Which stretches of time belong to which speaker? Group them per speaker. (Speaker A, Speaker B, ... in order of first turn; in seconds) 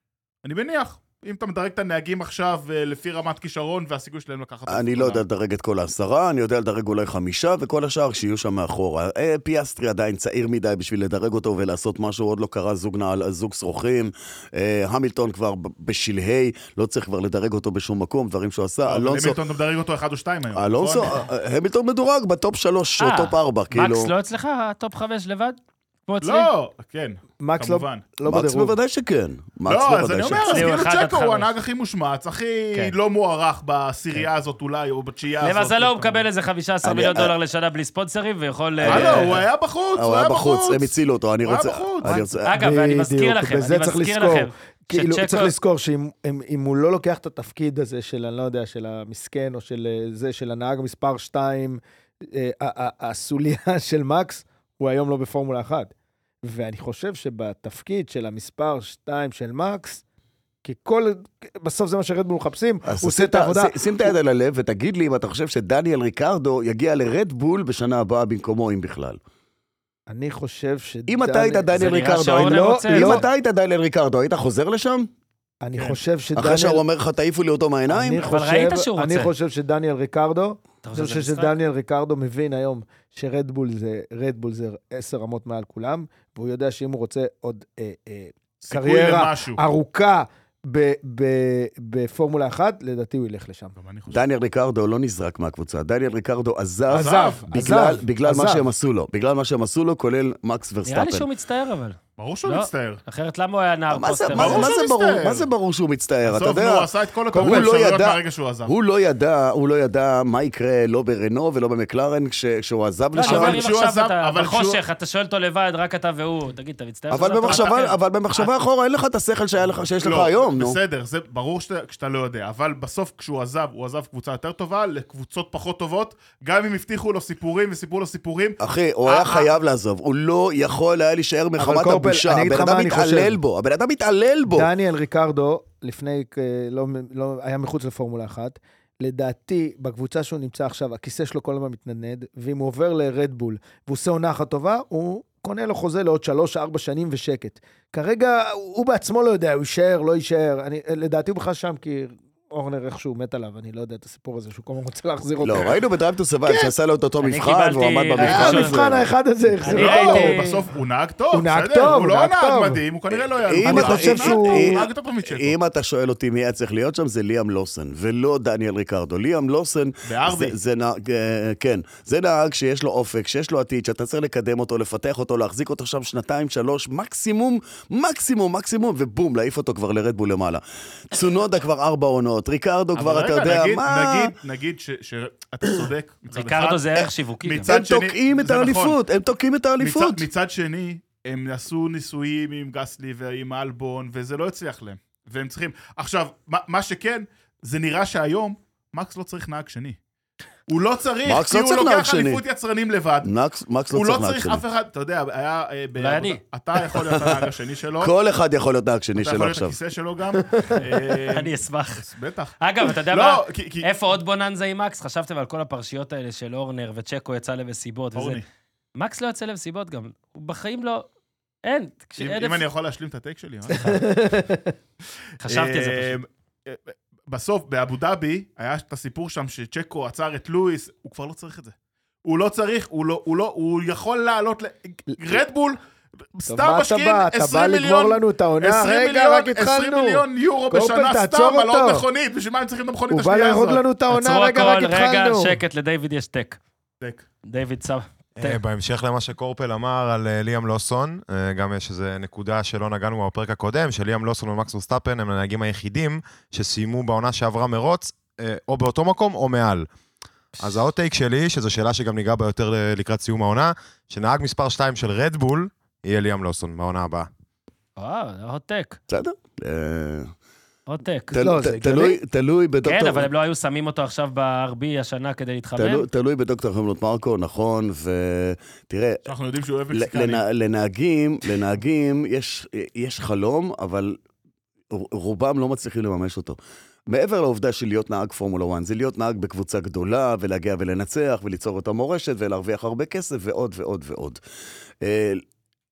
Speaker A: 0.4-5.2, 18.9-21.1, 26.2-28.0, 29.7-36.2, 38.8-42.2, 88.6-89.6, 93.8-94.2, 96.9-97.4, 102.2-103.0, 104.3-105.5, 106.3-108.7, 113.2-114.8, 117.5-117.8, 120.0-129.5, 159.7-165.5, 170.1-170.5, 182.9-188.9, 189.8-200.0, 200.7-203.3, 203.9-208.1, 209.2-213.9, 218.1-218.4, 222.2-224.1, 225.4-235.8, 236.3-243.8, 247.0-247.2, 279.2-280.4
Speaker B: 4.7-19.4, 20.6-24.1, 28.2-30.7, 36.8-37.3, 38.8-42.5, 62.9-69.2, 71.1-75.1, 76.3-78.2, 94.1-101.3, 103.9-113.6, 117.1-120.8, 128.6-134.7, 155.4-159.1, 163.1-184.3, 187.6-190.3, 201.2-202.4, 203.2-204.6, 207.0-207.4, 208.0-209.7, 269.1-270.3, 271.3-273.3, 275.8-279.3, 279.9-284.2, 284.9-294.4, 295.0-295.4
Speaker C: 23.0-26.5, 30.4-31.5, 35.4-39.4, 42.4-45.5, 71.7-73.2, 78.2-79.3, 80.8-81.5, 100.8-104.8, 113.1-118.0, 157.2-158.7, 159.6-160.6, 186.3-187.7, 206.0-206.4, 211.3-212.1, 212.6-218.4, 219.0-221.1, 221.6-222.7, 225.4-226.2, 244.1-246.6, 247.4-248.6, 268.0-269.0, 270.9-271.3, 272.8-276.1
Speaker D: 27.4-28.8, 42.3-55.9, 56.4-60.0, 60.6-64.1, 70.1-73.2, 75.6-76.8, 77.9-93.7, 96.9-98.7, 107.3-107.7, 131.6-133.4, 134.5-155.8, 158.2-160.4, 161.3-162.8, 163.6-164.8, 223.8-224.7, 235.1-235.4, 236.5-242.1, 243.1-245.6, 271.3-272.2
Speaker E: 248.4-259.9, 260.6-267.3